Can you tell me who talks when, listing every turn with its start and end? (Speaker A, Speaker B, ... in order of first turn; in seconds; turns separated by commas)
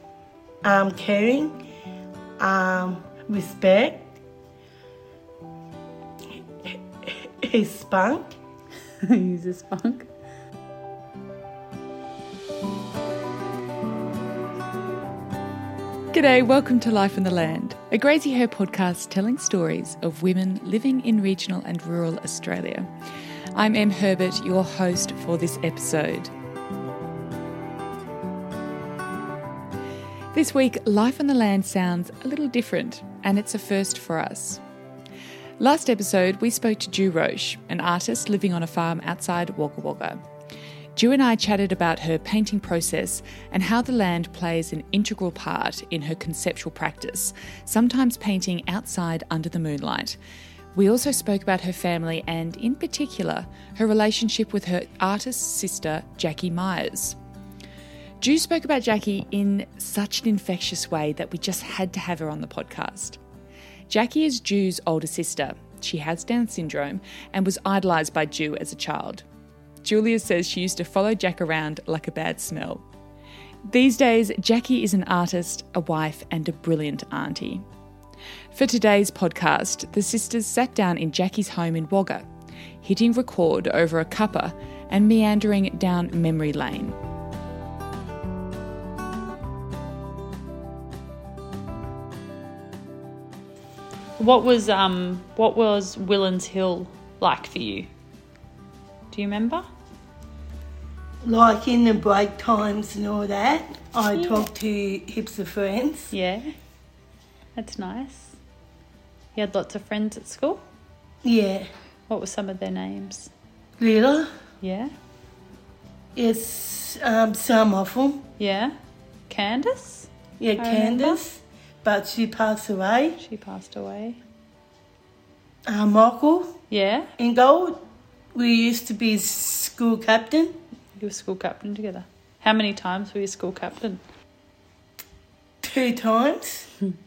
Speaker A: 0.6-1.6, Speaker A: 2.4-4.2, Speaker A: 6.7-8.3, Speaker B: 9.0-10.1, Speaker C: 16.1-22.9, Speaker C: 23.5-26.3, Speaker C: 30.3-34.6, Speaker C: 35.6-40.2, Speaker C: 40.9-50.2, Speaker C: 50.7-57.2, Speaker C: 58.2-63.2, Speaker C: 63.9-69.2, Speaker C: 69.8-72.8, Speaker C: 73.7-77.6, Speaker C: 78.5-82.2, Speaker C: 82.8-87.0, Speaker B: 94.2-97.9, Speaker B: 99.1-99.6, Speaker A: 101.2-106.1, Speaker B: 104.1-104.5, Speaker B: 106.1-106.5, Speaker B: 107.5-108.4, Speaker B: 109.3-110.6, Speaker A: 111.2-111.7, Speaker B: 112.1-113.3, Speaker A: 113.8-114.3, Speaker B: 114.6-114.9, Speaker A: 116.2-118.2, Speaker B: 118.4-118.8, Speaker B: 119.3-121.2, Speaker A: 120.4-123.2, Speaker B: 123.2-124.2, Speaker A: 125.7-126.6, Speaker B: 126.7-127.1, Speaker A: 127.2-130.6, Speaker B: 131.0-134.0, Speaker A: 135.6-136.7